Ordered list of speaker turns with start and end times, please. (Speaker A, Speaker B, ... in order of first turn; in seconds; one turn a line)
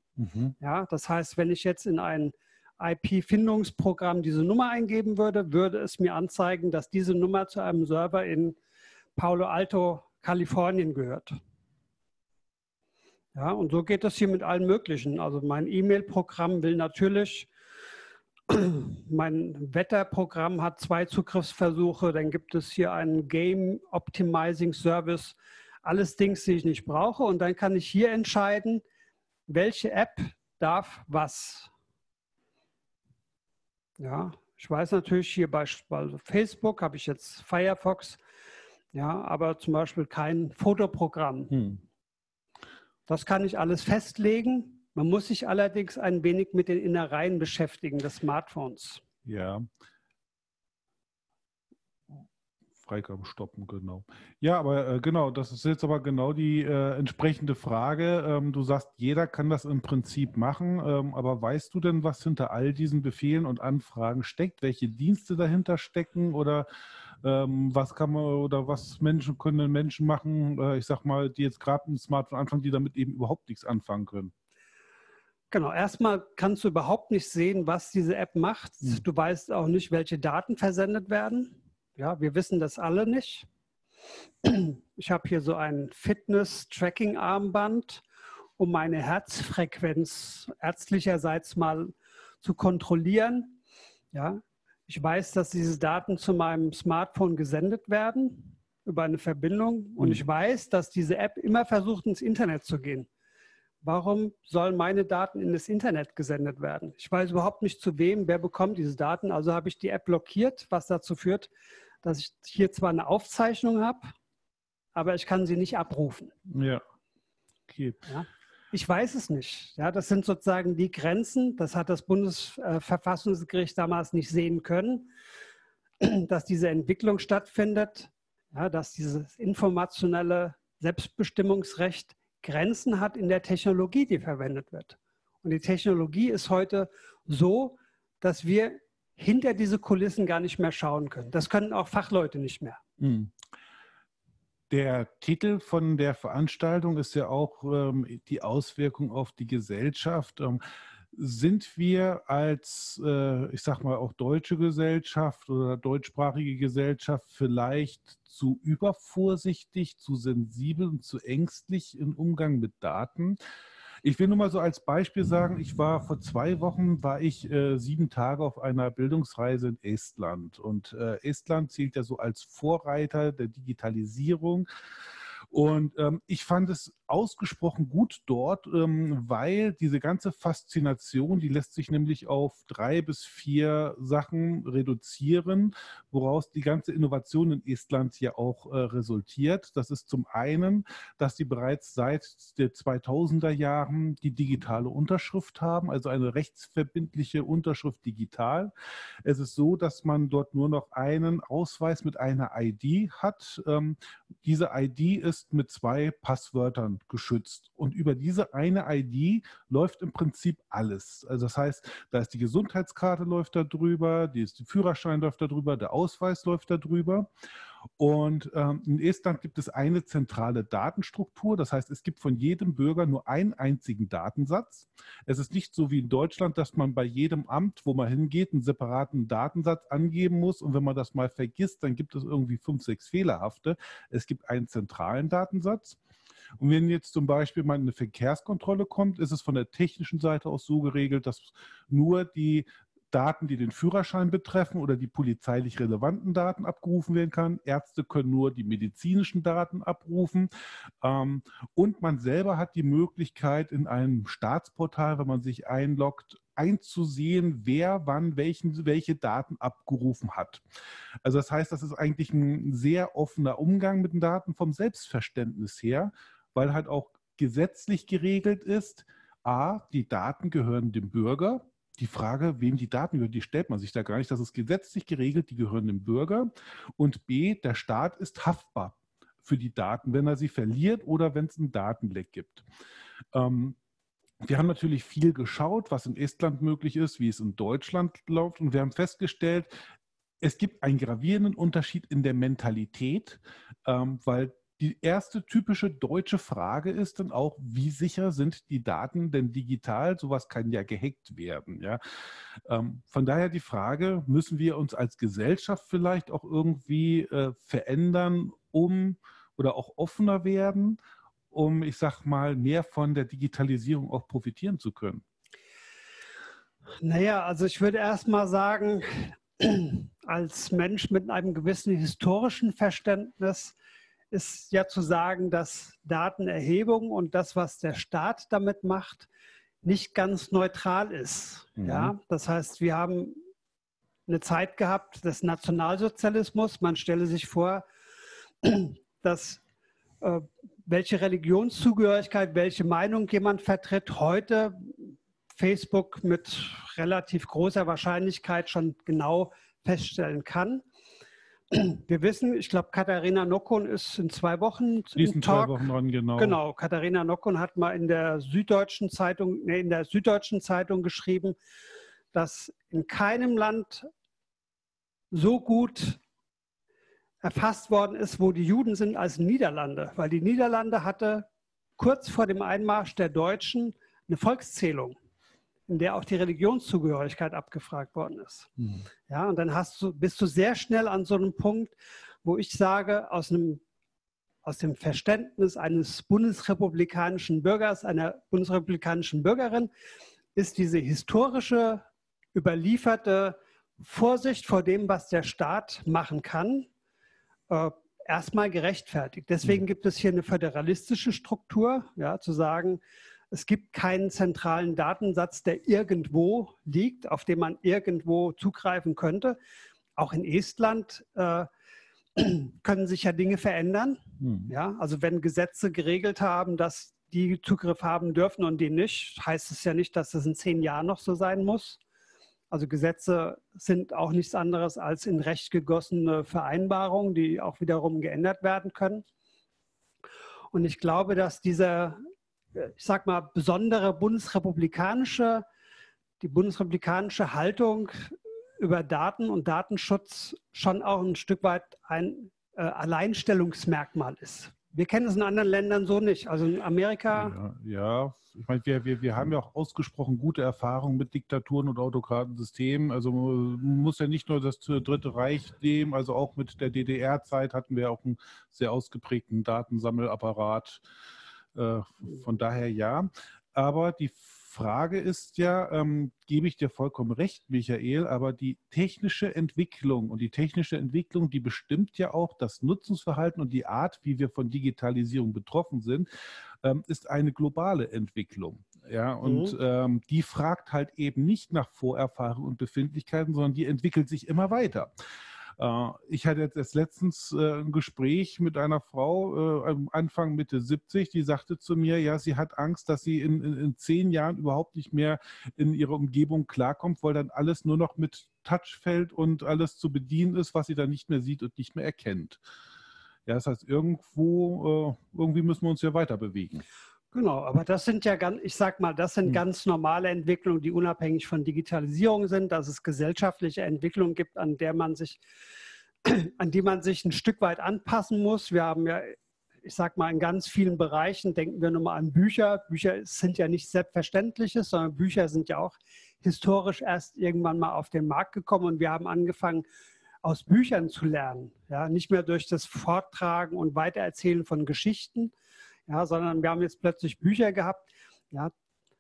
Speaker A: 0.2-0.6
Speaker B: 0.6-8.6
Speaker B: 9.2-11.3
Speaker B: 13.3-17.5
Speaker B: 18.5-28.8
Speaker B: 29.5-31.7
Speaker B: 34.0-38.2
Speaker B: 38.9-41.5
Speaker A: 41.5-41.8
Speaker B: 43.1-49.0
Speaker A: 49.2-49.7
Speaker A: 52.8-66.7
Speaker A: 67.2-74.3
Speaker B: 75.5-83.5
Speaker B: 84.4-88.0
Speaker B: 88.6-93.6
Speaker B: 94.1-103.1
Speaker B: 103.8-111.5
Speaker B: 112.0-114.1
Speaker B: 115.0-116.3
Speaker A: 116.5-116.8
Speaker A: 117.7-118.1
Speaker B: 118.1-125.1
Speaker B: 126.0-142.8
Speaker A: 143.0-143.3
Speaker A: 144.7-150.6
Speaker A: 151.1-163.4
Speaker A: 164.0-174.7
Speaker A: 175.5-198.7
Speaker A: 199.2-217.3
Speaker A: 218.0-236.0
Speaker A: 236.6-250.5
Speaker A: 251.0-260.6
Speaker A: 261.2-282.7
Speaker A: 283.3-283.8
Speaker A: 284.4-289.7
Speaker A: 290.4-302.0
Speaker A: 302.6-311.0
Speaker A: 311.5-315.2
Speaker B: 317.0-323.8
Speaker B: 324.3-329.3
Speaker B: 329.8-333.4
Speaker A: 331.8-332.1
Speaker B: 334.3-337.9
Speaker B: 338.6-339.6
Speaker B: 340.2-350.8
Speaker B: 351.7-361.6
Speaker A: 355.2-356.6
Speaker B: 362.3-364.1
Speaker B: 365.3-366.2
Speaker B: 367.4-371.5
Speaker B: 372.0-375.2
Speaker B: 375.9-378.7
Speaker A: 378.8-379.1
Speaker B: 379.3-383.8
Speaker B: 384.6-389.9
Speaker B: 390.6-396.9
Speaker B: 397.7-409.6
Speaker B: 410.2-411.7
Speaker B: 412.4-422.0
Speaker A: 414.4-414.7
Speaker B: 422.7-429.2
Speaker B: 430.7-432.2
Speaker B: 432.8-435.6
Speaker B: 436.4-447.6
Speaker A: 447.3-461.0
Speaker A: 461.8-476.3
Speaker A: 476.8-485.1
Speaker B: 479.4-479.7
Speaker A: 485.8-502.6
Speaker A: 503.5-506.9
Speaker B: 507.3-515.4
Speaker B: 516.2-529.9
Speaker B: 530.4-535.5
Speaker B: 536.1-538.7